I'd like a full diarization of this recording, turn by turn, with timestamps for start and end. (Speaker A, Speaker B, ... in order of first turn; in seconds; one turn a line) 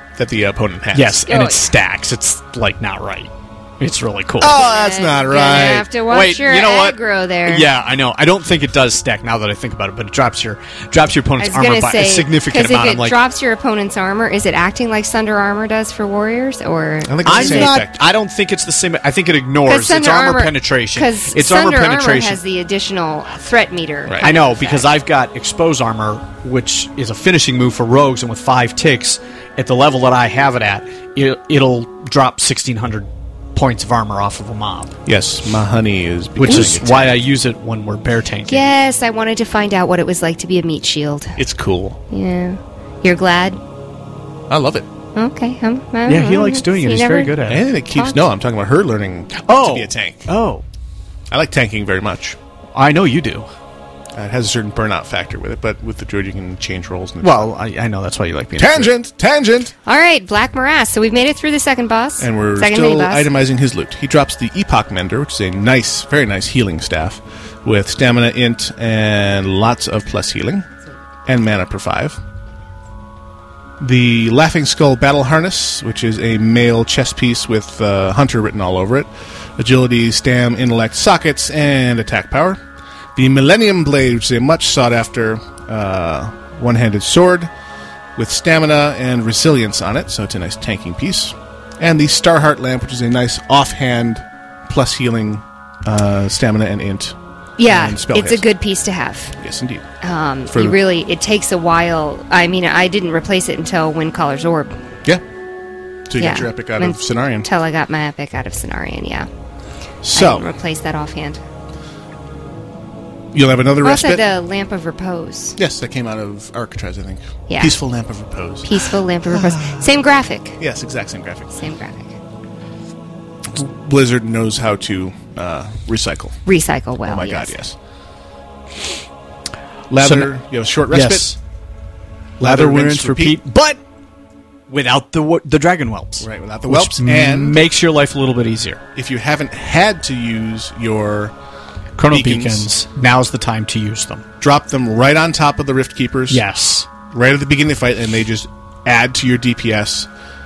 Speaker A: 0.2-1.3
Speaker B: 0.9-4.6
Speaker C: 1.3-1.6
Speaker A: 4.4-5.9
Speaker C: 4.5-7.7
Speaker B: 6.1-13.2
Speaker C: 11.4-17.7
Speaker A: 17.1-18.0
Speaker B: 17.3-22.4
Speaker C: 19.7-24.9
Speaker B: 24.2-34.9
Speaker A: 35.1-37.2
Speaker B: 36.4-38.6
Speaker C: 38.5-41.4
Speaker A: 41.4-42.0
Speaker C: 42.1-43.6
Speaker A: 44.5-44.9
Speaker C: 45.1-47.4
Speaker B: 46.1-47.7
Speaker A: 47.5-50.3
Speaker C: 47.9-48.2
Speaker B: 49.5-50.6
Speaker A: 51.3-52.4
Speaker B: 52.8-53.5
Speaker A: 54.1-57.5
Speaker B: 57.2-58.9
Speaker A: 58.6-59.7
Speaker C: 59.9-63.3
Speaker A: 62.2-70.7
Speaker A: 71.3-72.2
Speaker A: 73.8-82.6
Speaker A: 83.2-87.5
Speaker A: 88.2-98.5
Speaker C: 97.6-99.3
Speaker A: 99.4-99.9
Speaker C: 100.0-104.7
Speaker A: 100.5-100.8
Speaker A: 106.1-107.5
Speaker C: 106.2-109.3
Speaker A: 110.0-110.5
Speaker C: 110.1-111.4
Speaker A: 113.3-114.2
Speaker C: 113.8-115.6
Speaker A: 115.6-119.9
Speaker C: 117.5-117.8
Speaker C: 118.7-120.6
Speaker A: 120.6-121.5
Speaker C: 121.5-122.1
Speaker A: 123.5-126.4
Speaker C: 126.5-127.6
Speaker A: 127.0-127.8
Speaker A: 129.9-131.3
Speaker B: 130.0-130.3
Speaker B: 130.9-131.4
Speaker A: 132.4-133.4
Speaker B: 132.4-133.8
Speaker B: 134.7-138.8
Speaker A: 136.2-137.6
Speaker A: 138.9-141.3
Speaker B: 142.0-144.2
Speaker A: 142.1-142.7
Speaker A: 144.4-146.4
Speaker B: 146.3-146.9
Speaker A: 147.1-150.1